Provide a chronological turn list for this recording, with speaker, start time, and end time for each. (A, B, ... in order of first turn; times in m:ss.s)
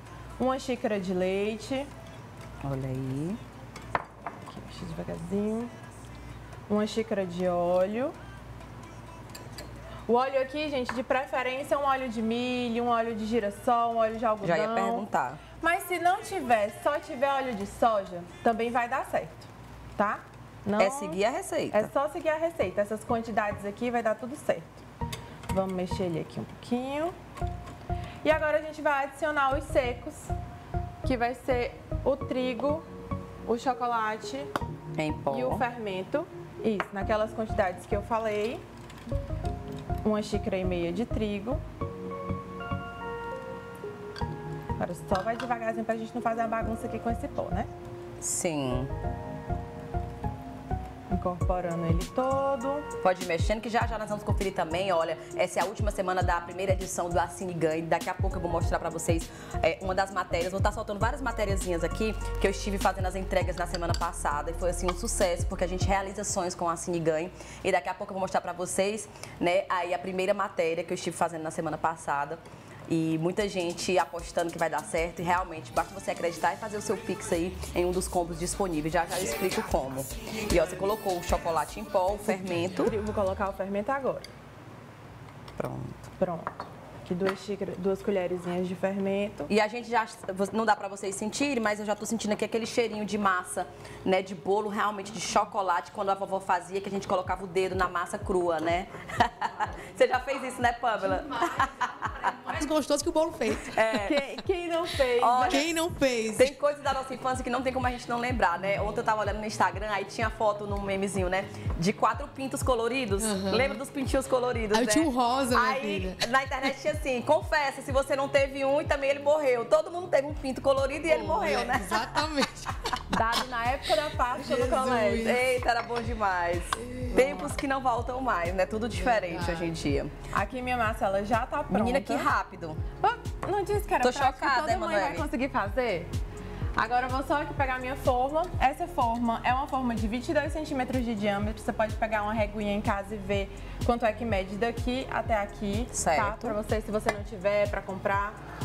0:00.4-0:01.9 A
0:02.6-0:03.4 B
0:04.5-0:05.7 A
0:06.7-0:08.2 A
0:10.1-0:15.1 A
0:14.4-0:15.4 B
0:15.6-0:21.2 A
0:20.8-0:21.9 B
0:21.7-0:24.8 A
0:25.5-0:27.1 A
0:28.2-0:30.3 A
0:31.0-0:32.8 A
0:33.5-0:34.5 A
0:35.0-0:35.6 B
0:35.3-0:38.6 A
0:40.0-0:41.6 A
0:44.8-0:47.7 A
0:48.2-0:48.9 B
0:51.1-0:52.9 A
0:53.0-1:22.9 B
1:22.8-1:24.3 A
1:25.6-1:26.1 B
1:26.2-1:29.5 A
1:29.5-1:42.5 B
1:42.2-1:43.8 C
1:43.5-1:44.2 B
1:43.9-1:45.7 A
1:45.2-1:45.7 B
1:45.5-1:46.6 C
1:46.2-2:02.4 B
1:53.2-1:53.8 C
1:54.7-1:56.2 C
2:01.1-2:03.2 C
2:03.1-2:05.4 A
2:04.4-2:05.5 C
2:05.1-2:10.1 B
2:07.0-2:07.5 C
2:09.1-2:09.7 C
2:10.3-2:12.3 A
2:11.7-2:12.8 B
2:13.0-2:16.1 A
2:14.0-2:15.3 B
2:16.8-2:28.4 A
2:25.9-2:26.6 B